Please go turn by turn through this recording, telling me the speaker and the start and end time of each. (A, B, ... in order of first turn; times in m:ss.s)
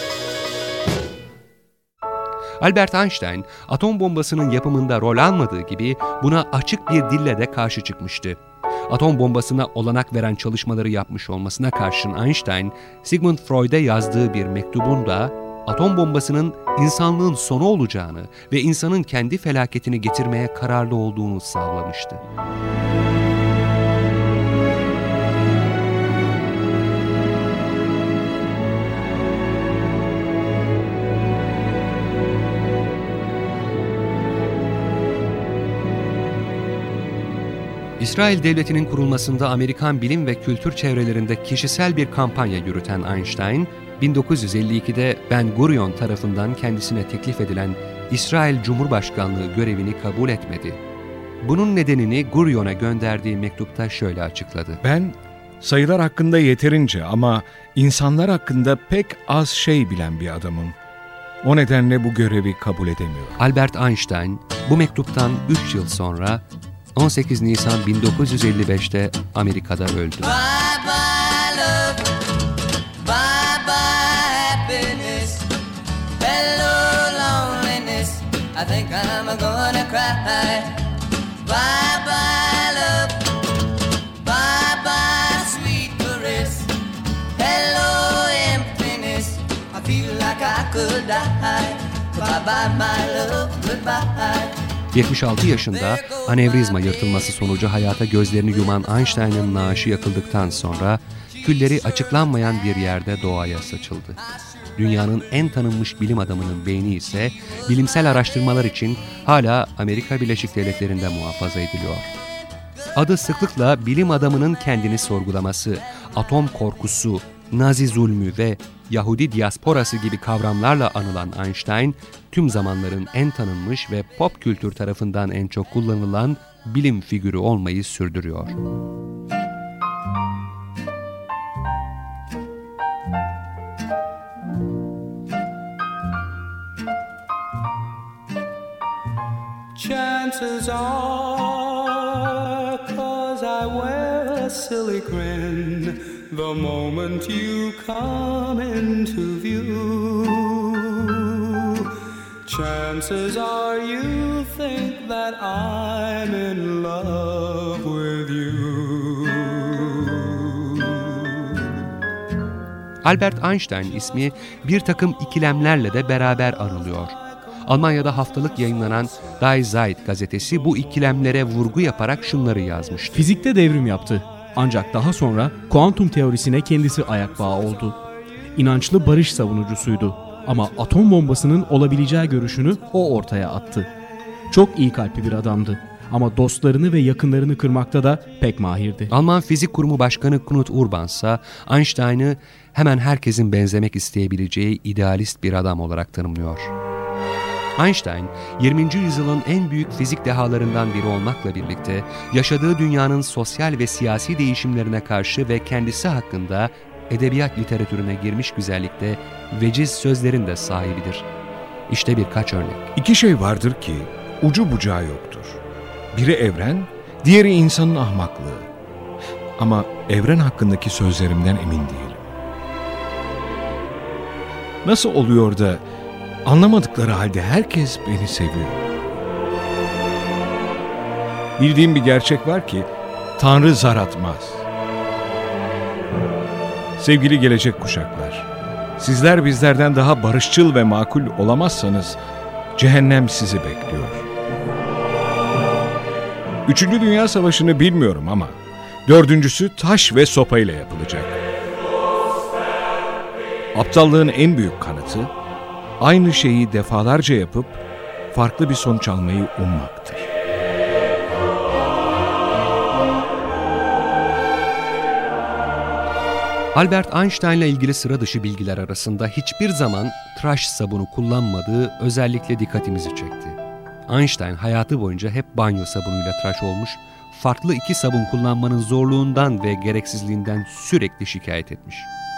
0:02.6-0:22.2 A
0:38.0-0:50.8 A
0:51.4-0:54.8 A
0:54.8-1:00.8 B
1:01.4-1:03.4 B
1:03.4-1:06.4 A
1:07.0-1:10.3 A
1:10.2-1:12.2 C
1:13.0-1:15.5 C
1:16.2-1:23.4 C
1:24.2-1:26.7 C
1:27.4-1:34.6 C
1:34.9-1:44.2 A
1:44.8-1:52.1 A
1:53.0-2:08.6 A
2:19.8-2:30.7 D
2:32.5-2:39.9 D
2:43.0-2:53.3 A
2:53.1-2:58.0 E
2:58.6-3:03.9 E
3:04.5-3:09.1 E
3:09.1-3:16.7 A
3:17.8-3:31.3 A
3:31.9-3:32.9 A
3:33.0-3:35.6 B
3:36.1-3:38.7 B
3:39.6-3:42.2 B
3:44.8-3:45.9 B
3:46.4-3:48.8 B
3:51.6-3:54.6 B
3:57.0-4:02.2 B
4:02.8-4:04.3 B
4:06.7-4:11.4 B
4:13.7-4:15.3 B
4:16.0-4:20.3 B
4:26.8-4:42.1 A